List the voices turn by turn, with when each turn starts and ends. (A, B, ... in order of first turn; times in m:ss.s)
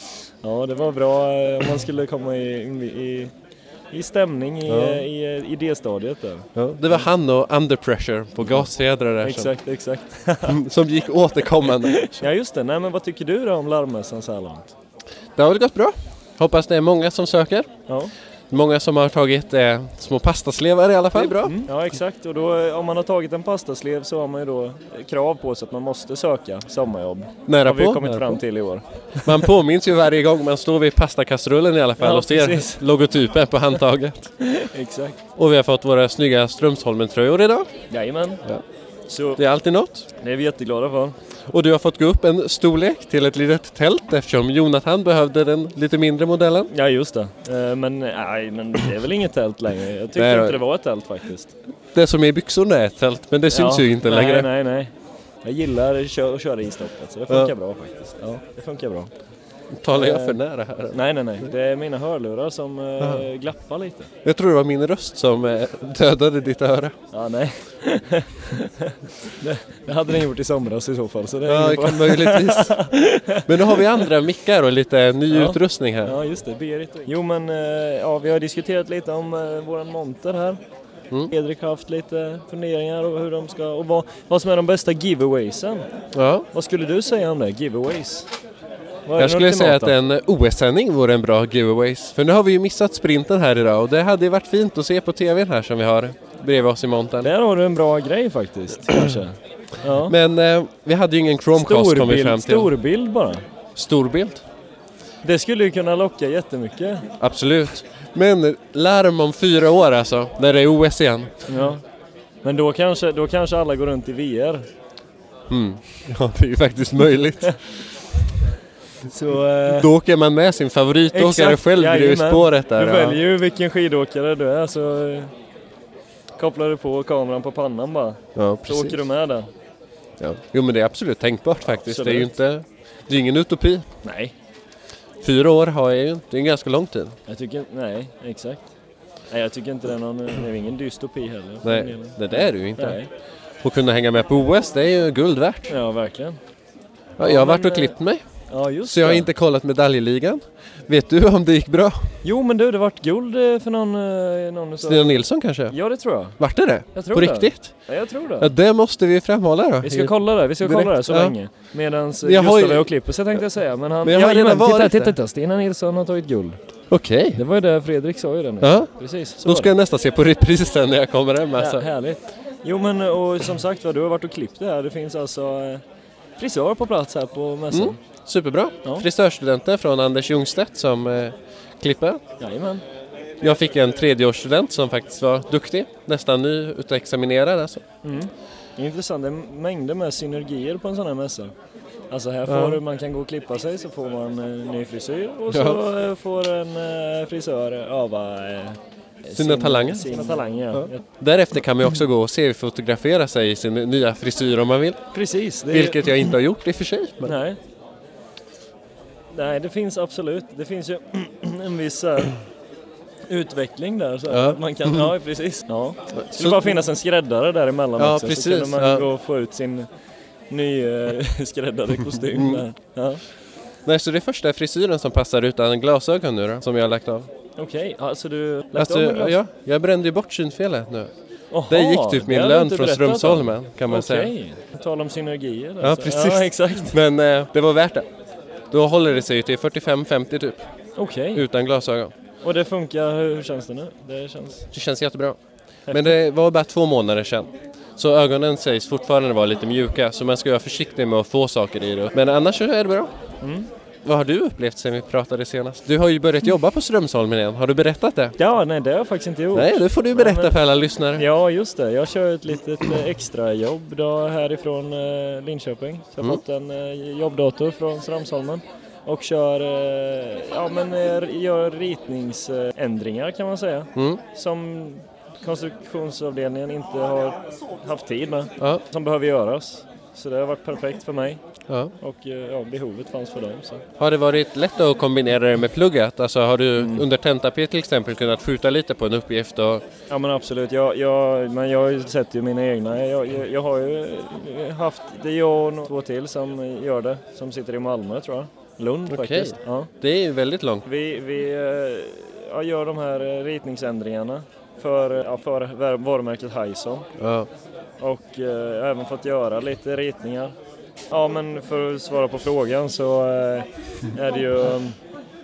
0:00.4-0:03.3 A
0:03.9-0:07.0 A
0:04.7-0:05.0 B
0:06.6-0:09.5 B
0:09.2-0:10.6 A
0:10.4-0:12.2 B
0:11.6-0:14.7 A
0:15.4-0:17.7 B
0:18.5-0:21.7 B
0:21.1-0:29.4 A
0:27.5-0:28.4 B
0:29.2-0:34.5 B
0:32.0-0:32.8 A
0:34.5-0:35.2 A
0:35.4-0:37.7 B
0:37.9-0:38.4 A
0:39.1-0:39.4 A
0:39.4-0:40.1 B
0:40.2-0:41.2 A
0:41.5-0:46.7 B
0:46.7-0:51.5 A
0:50.2-0:50.6 B
0:51.9-0:54.5 B
0:53.5-0:54.9 A
0:55.4-0:59.1 A
0:59.8-1:01.0 B
0:59.9-1:00.4 A
1:00.9-1:04.1 A
1:04.2-1:07.0 B
1:07.1-1:13.9 A
1:11.4-1:12.9 B
1:13.4-1:16.2 B
1:15.3-1:20.6 A
1:21.3-1:25.9 A
1:26.1-1:26.5 B
1:26.5-1:28.3 A
1:29.0-1:29.9 A
1:29.2-1:37.3 B
1:37.2-1:40.1 A
1:40.0-1:42.7 B
1:41.5-1:43.4 A
1:43.7-1:44.4 B
1:45.2-1:47.1 A
1:47.2-1:51.4 B
1:51.5-1:51.8 A
1:52.4-1:54.7 A
1:55.5-1:58.0 B
1:59.1-1:59.9 A
1:59.6-2:03.2 B
2:01.1-2:05.3 A
2:06.4-2:09.5 A
2:08.4-2:09.0 B
2:10.2-2:13.8 B
2:11.6-2:12.3 A
2:14.0-2:14.3 A
2:15.2-2:17.2 B
2:17.3-2:18.7 A
2:19.3-2:23.1 A
2:21.6-2:23.0 B
2:23.6-2:25.8 B
2:25.7-2:26.4 A
2:27.2-2:32.2 B
2:27.2-2:29.3 A
2:32.2-2:36.4 A
2:34.8-2:41.4 B
2:36.9-2:38.5 A
2:39.8-2:46.6 A
2:42.2-2:43.4 B
2:44.0-2:45.2 B
2:46.9-2:47.4 B
2:47.3-2:49.7 A
2:48.6-2:51.9 B
2:51.6-2:55.8 A
2:56.4-2:58.0 A
2:57.7-3:02.2 B
3:02.4-3:02.8 A
3:03.4-3:07.8 B
3:08.0-3:11.5 A
3:12.1-3:21.0 A
3:12.5-3:12.8 B
3:15.5-3:15.8 B
3:19.3-3:25.0 B
3:25.1-3:26.1 A
3:25.7-3:27.4 B
3:27.2-3:27.6 A
3:29.3-3:32.4 A
3:33.3-3:39.9 A
3:34.3-3:35.1 B
3:36.1-3:36.9 B
3:38.0-3:39.1 B
3:40.5-3:43.2 A
3:42.4-3:42.6 B
3:43.8-3:47.3 B
3:47.6-3:49.4 A
3:48.7-3:51.1 B
3:51.5-3:56.9 A
3:51.7-3:54.3 B
3:55.8-3:58.1 B
3:58.7-4:00.7 B
4:01.0-4:01.4 A
4:01.3-4:02.1 B
4:02.4-4:04.7 A
4:04.7-4:13.1 B
4:05.9-4:06.1 A
4:13.4-4:13.7 A
4:14.0-4:18.4 B
4:18.4-4:20.6 A
4:19.5-4:21.3 B
4:21.2-4:41.4 A
4:34.0-4:34.2 B
4:42.0-4:43.8 A
4:44.0-4:49.8 B
4:46.8-4:47.0 A
4:50.1-4:59.9 A
4:59.1-5:00.8 B
5:00.8-5:07.1 A
5:07.2-5:07.5 B
5:08.0-5:10.6 A
5:11.1-5:15.0 A